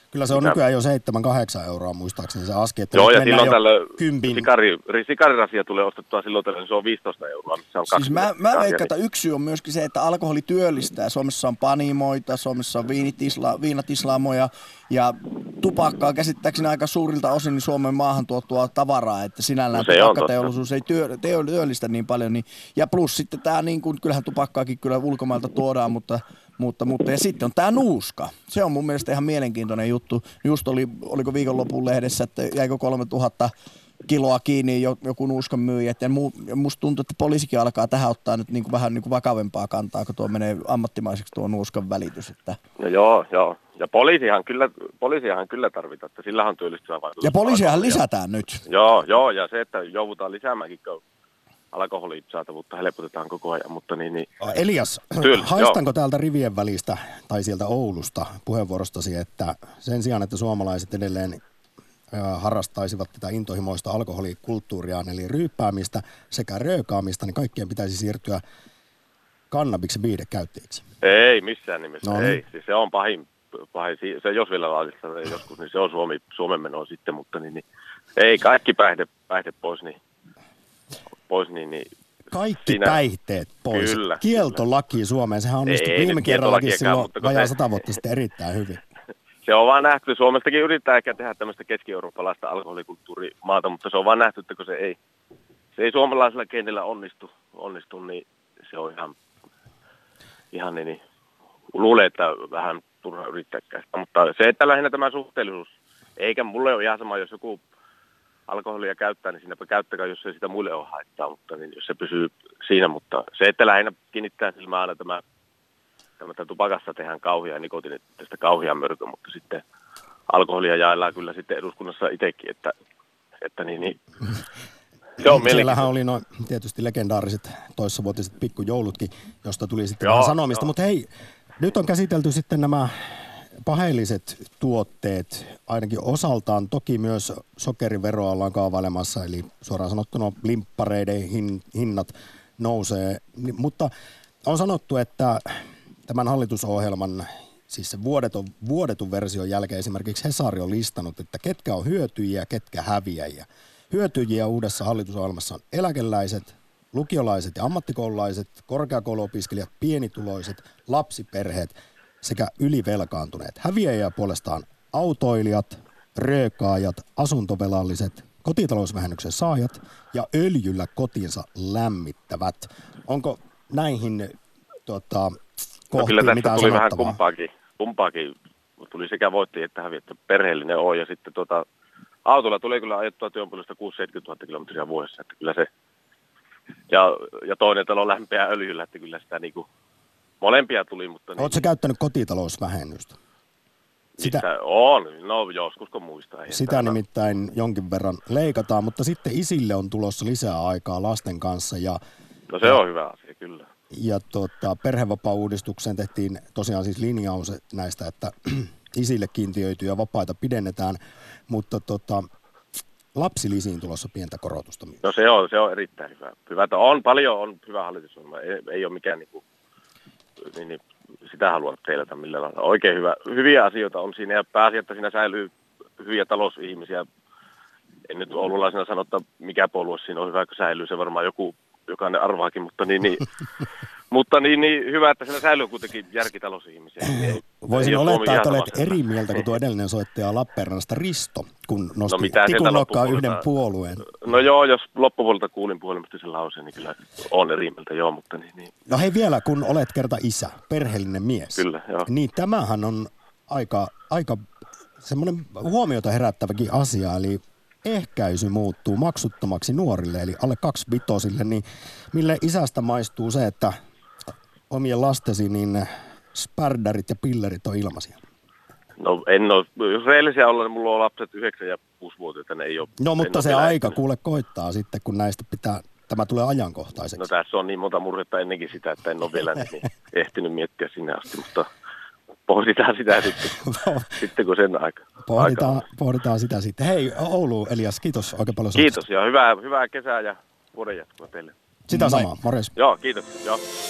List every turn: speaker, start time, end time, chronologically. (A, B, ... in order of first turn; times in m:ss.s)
0:00.1-0:04.5 A
0:02.9-0:08.9 B
0:07.9-0:33.5 C
0:19.7-0:20.3 B
0:34.1-0:42.6 C
0:42.8-0:48.0 B
0:47.2-0:48.6 C
0:48.7-0:51.0 B
0:51.7-0:54.4 B
0:54.4-1:01.4 A
0:55.2-0:55.8 B
1:02.1-1:08.4 A
1:09.5-1:10.8 A
1:11.0-1:17.6 B
1:12.0-1:12.4 A
1:18.2-1:20.0 B
1:21.3-1:21.9 B
1:22.3-1:28.8 A
1:22.7-1:23.0 B
1:23.7-1:24.6 B
1:25.7-1:27.6 B
1:29.4-1:35.0 B
1:35.8-1:39.2 B
1:40.5-1:41.0 B
1:41.7-1:47.6 B
1:48.5-1:55.2 B
1:56.2-1:59.6 B
2:00.3-2:02.7 B
2:03.4-2:04.0 B
2:05.2-2:05.9 B
2:05.2-2:23.9 A
2:10.0-2:10.6 B
2:24.4-2:54.3 A
2:54.9-2:55.4 A
2:55.9-2:57.2 A
2:55.9-3:01.7 B
3:02.3-3:05.7 B
3:06.9-3:09.7 B
3:10.4-3:11.6 B
3:11.4-3:13.2 A
3:14.2-3:17.0 B
3:14.2-3:14.4 A
3:16.5-3:22.0 A
3:22.5-3:23.7 B
3:23.9-3:32.3 A
3:33.2-3:35.0 A
3:35.0-3:39.4 B
3:40.5-3:47.0 B
3:48.1-3:53.3 B
3:54.1-3:59.0 B
3:57.0-4:04.2 A
4:02.1-4:03.4 B
4:04.1-4:08.7 B
4:08.9-4:14.4 A
4:11.6-4:12.1 B
4:15.0-4:23.8 A
4:24.7-4:28.2 A
4:29.0-4:34.0 B
4:33.0-4:37.3 A
4:37.2-4:41.7 B
4:42.5-4:45.8 B
4:43.6-4:44.1 A
4:45.3-4:49.0 A
4:48.8-4:51.5 B
4:51.9-4:52.7 A
4:51.9-4:52.3 C
4:52.8-4:53.6 B